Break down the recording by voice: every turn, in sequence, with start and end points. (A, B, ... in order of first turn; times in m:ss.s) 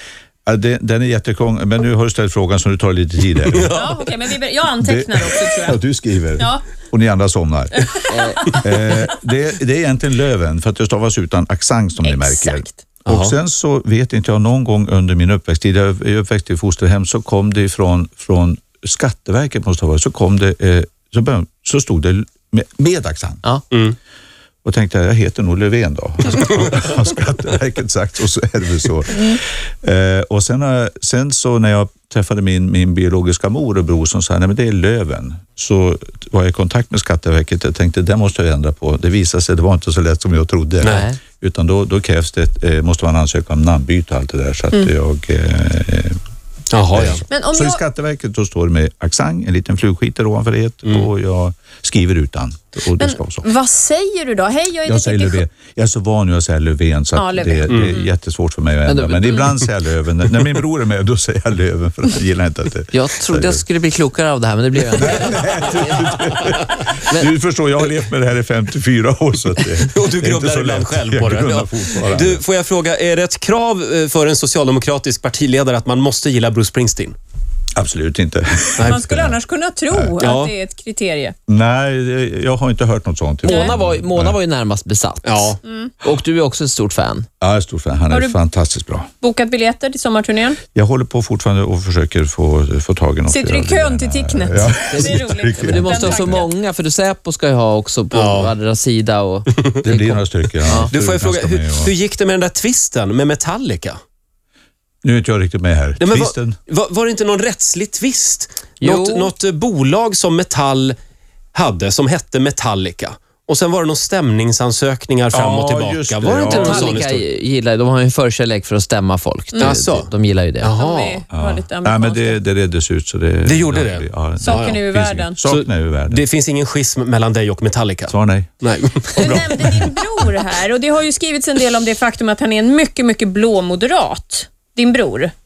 0:00.4-0:03.8 A
0:03.5-0:04.0 B
0:03.7-0:05.8 C
0:04.8-0:08.0 A
0:06.4-0:06.7 C
0:07.7-0:08.5 C
0:08.1-0:08.6 D
0:08.6-0:23.4 A
0:12.0-0:12.8 C
0:13.1-0:13.3 B
0:23.7-0:24.0 B
0:24.6-0:46.2 A
0:40.8-0:41.1 B
0:46.7-0:47.2 B
0:46.9-0:53.4 A
0:47.3-0:47.8 C
0:53.0-0:55.4 C
0:54.8-1:03.6 A
0:57.1-0:58.1 C
0:58.8-0:59.5 D
1:02.9-1:06.2 D
1:04.9-1:12.4 A
1:09.8-1:17.2 B
1:17.7-1:19.4 A
1:18.8-1:21.3 C
1:20.2-1:20.5 B
1:21.5-1:24.4 A
1:23.4-1:27.3 D
1:23.4-1:23.7 C
1:25.2-1:25.6 B
1:25.6-1:25.9 C
1:27.4-1:29.1 A
1:28.1-1:28.4 C
1:29.2-1:30.6 C
1:30.7-1:36.4 A
1:33.3-1:36.5 C
1:34.9-1:40.9 D
1:38.1-1:38.5 B
1:39.8-1:41.9 A
1:40.8-1:44.0 B
1:45.0-1:46.6 A
1:46.0-1:51.0 B
1:48.8-1:49.3 D
1:51.5-1:57.2 B
1:55.3-1:57.0 A
1:56.5-2:00.7 D
1:59.6-2:00.1 B
2:00.6-2:01.2 B
2:00.7-2:02.4 C
2:01.3-2:06.2 A
2:03.4-2:04.8 B
2:04.4-2:05.4 C
2:05.4-2:09.9 B
2:08.1-2:08.5 A
2:09.2-2:15.3 C